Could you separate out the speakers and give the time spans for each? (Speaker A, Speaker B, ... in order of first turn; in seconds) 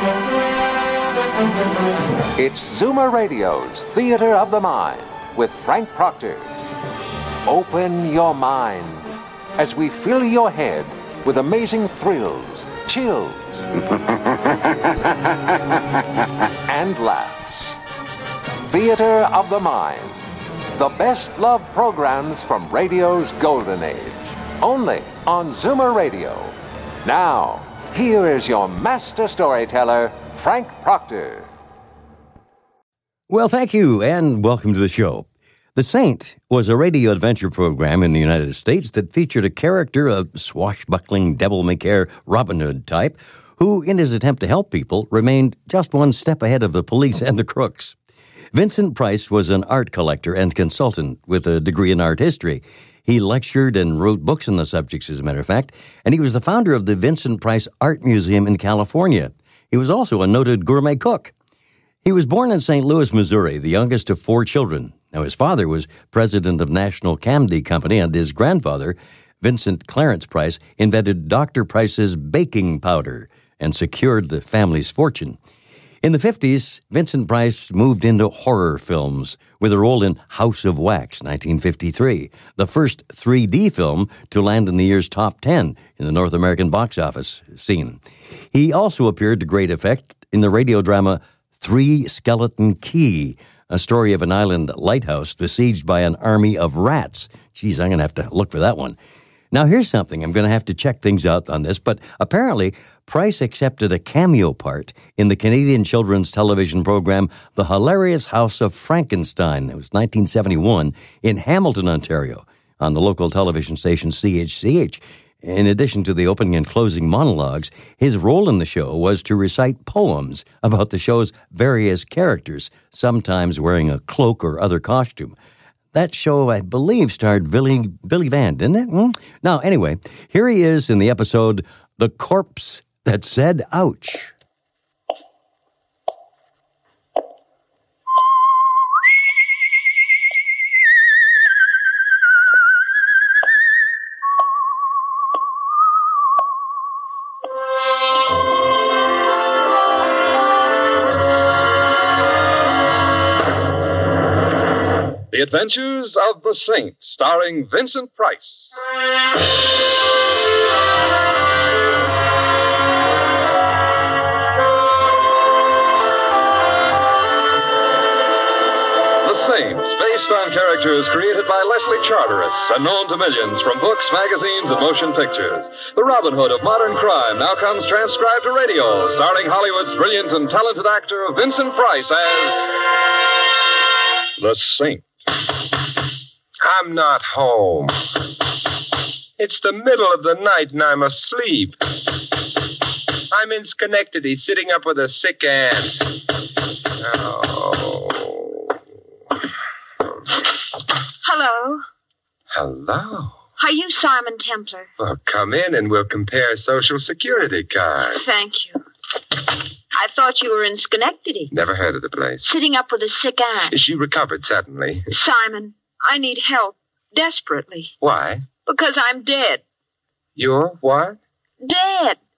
Speaker A: 2.4-6.5, 7.4-13.7, 16.6-17.8, 18.6-20.2, 20.7-31.5
Speaker B: 33.3-48.0, 48.5-61.3, 62.0-75.4, 76.0-99.0, 99.5-125.3, 125.9-134.3
Speaker C: 155.3-158.6, 169.2-182.7, 184.4-185.1
Speaker D: 186.6-188.2, 189.4-191.8, 193.3-196.3, 196.9-198.8, 202.5-203.4, 205.0-208.2, 211.5-212.5, 213.7-215.1, 218.0-218.5, 220.4-221.2
Speaker E: 201.2-201.8, 203.6-204.9, 208.1-208.8, 209.9-211.5, 212.4-213.8, 215.1-217.9, 218.7-219.6, 221.6-222.2